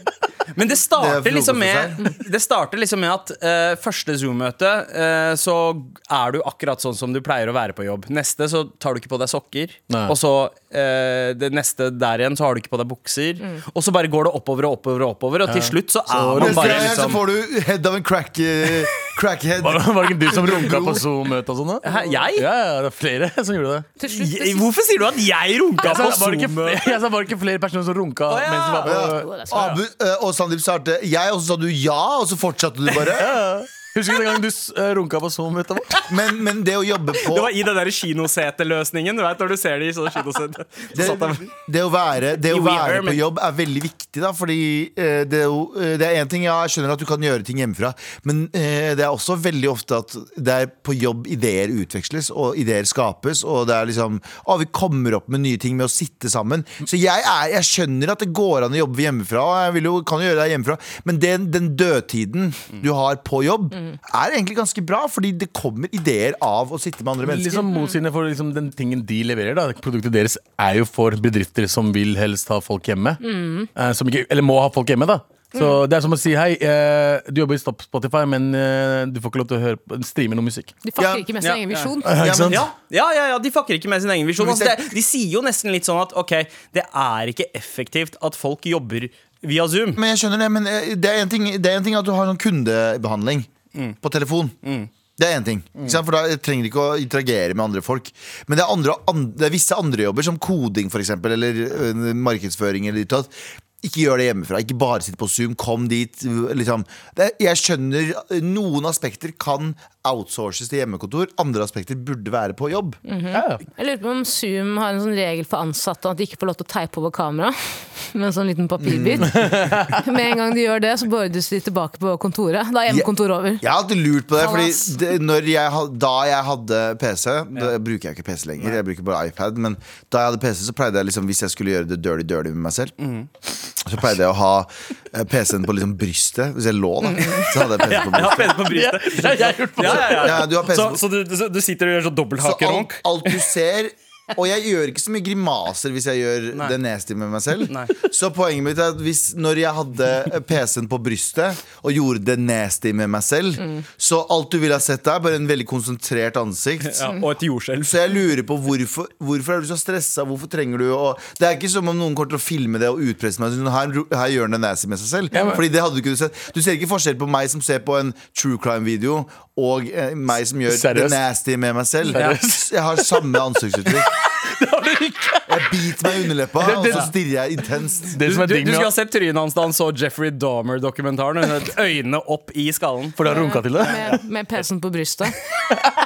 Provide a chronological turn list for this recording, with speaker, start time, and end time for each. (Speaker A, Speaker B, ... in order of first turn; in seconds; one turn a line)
Speaker A: 0.6-17.2
Speaker B: 0.9-2.0
Speaker C: 9.9-10.1
Speaker C: 15.5-17.0
Speaker B: 16.4-21.1
Speaker C: 19.6-23.9
Speaker A: 21.8-22.5
Speaker D: 24.0-24.7
Speaker A: 24.1-27.0
Speaker C: 25.8-29.3
Speaker A: 28.3-29.0
Speaker B: 28.8-33.4
Speaker D: 29.1-29.7
Speaker C: 33.2-36.1
Speaker B: 36.1-37.5
Speaker A: 37.2-41.5
Speaker B: 40.9-67.7
Speaker A: 42.5-43.2
Speaker C: 67.2-73.2
Speaker D: 67.7-68.0
Speaker D: 73.2-73.7
Speaker C: 73.8-80.7
Speaker D: 75.5-75.8
Speaker D: 80.8-82.2
Speaker B: 81.0-81.3
Speaker A: 81.4-81.9
Speaker C: 82.0-82.7
Speaker B: 82.2-82.7
Speaker A: 82.5-90.0
Speaker B: 84.4-84.9
Speaker B: 90.0-93.5
Speaker B: 94.0-94.6
Speaker B: 95.2-113.0
Speaker D: 113.1-123.6
Speaker C: 113.3-113.6
Speaker B: 118.8-119.5
Speaker C: 119.3-120.0
Speaker B: 123.6-132.9
Speaker D: 124.4-125.0
Speaker A: 133.0-133.3
Speaker B: 133.8-138.6
Speaker A: 137.1-143.4
Speaker C: 138.6-140.4
Speaker B: 139.8-141.0
Speaker B: 142.4-157.1
Speaker A: 147.7-147.9
Speaker A: 156.9-158.2
Speaker B: 157.8-174.1
Speaker C: 165.3-165.6
Speaker C: 170.7-171.2
Speaker C: 172.1-173.2
Speaker C: 173.9-175.8
Speaker B: 175.5-178.2
Speaker C: 176.6-177.1
Speaker C: 178.1-178.9
Speaker A: 178.2-183.3
Speaker C: 183.2-184.2
Speaker D: 183.3-185.4